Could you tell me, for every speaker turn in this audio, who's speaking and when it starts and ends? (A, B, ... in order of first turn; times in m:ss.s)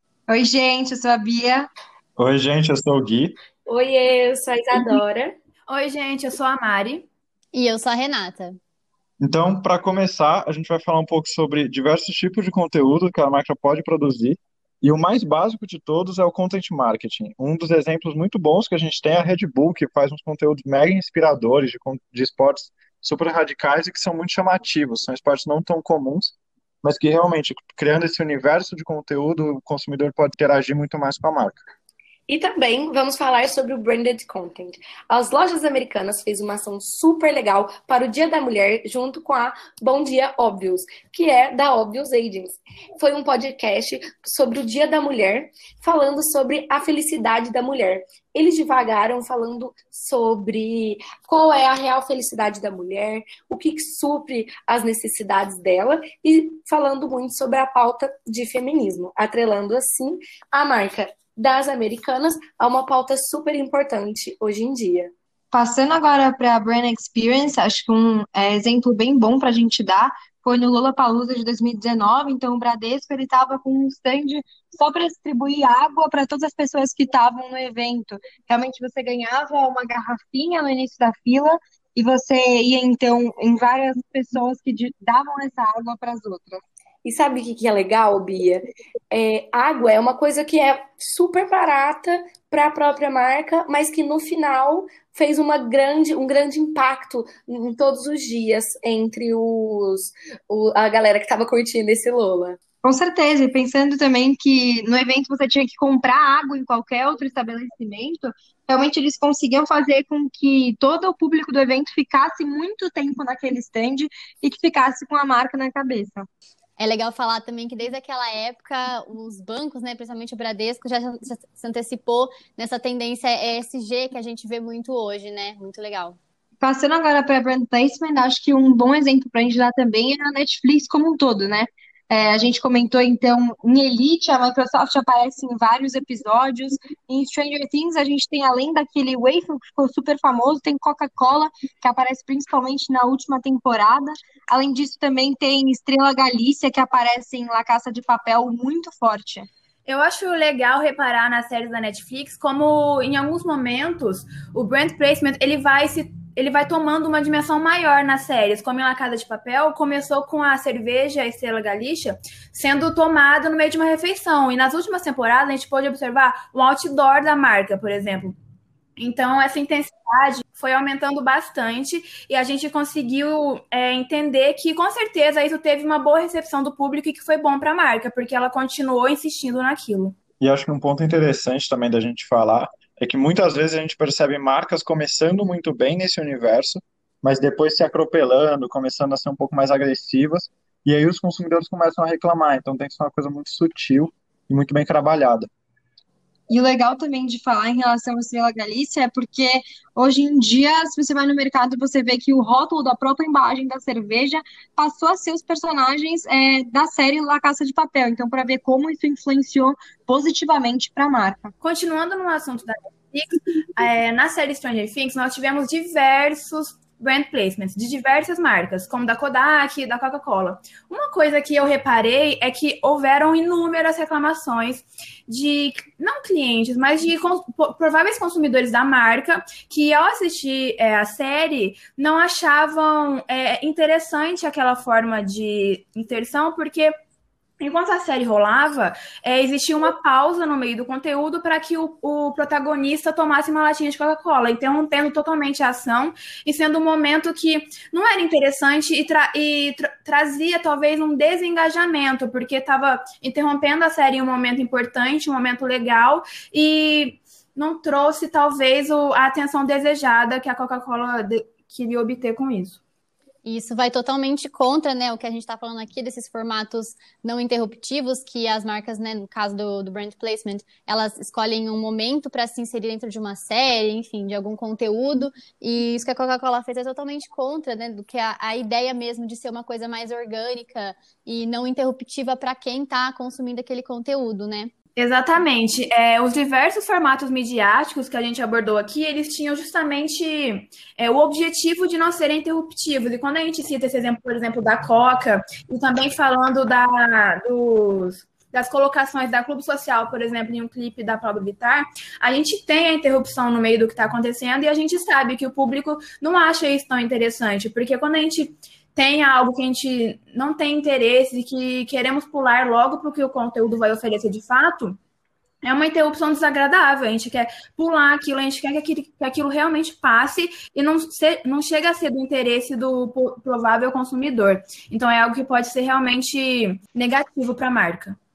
0:00.3-0:01.7 A
0:02.2-0:03.4 B
0:03.7-0:05.4 C
0:05.7-0:07.1 D
0:07.5-0:08.6 E
0:09.2-0:31.6 B
0:32.3-1:05.1 C
1:05.5-1:26.6 A
1:27.0-1:42.6 C
1:42.8-1:56.3 A
1:56.8-2:06.2 E
2:06.6-2:29.5 A
2:29.8-2:48.3 D
2:49.0-3:00.2 D
3:00.4-3:15.5 B
3:16.5-3:31.5 A
3:31.6-3:56.9 D
3:57.6-4:22.8 D
4:23.4-4:44.7 E
4:45.0-5:15.0 D
5:15.6-5:28.2 D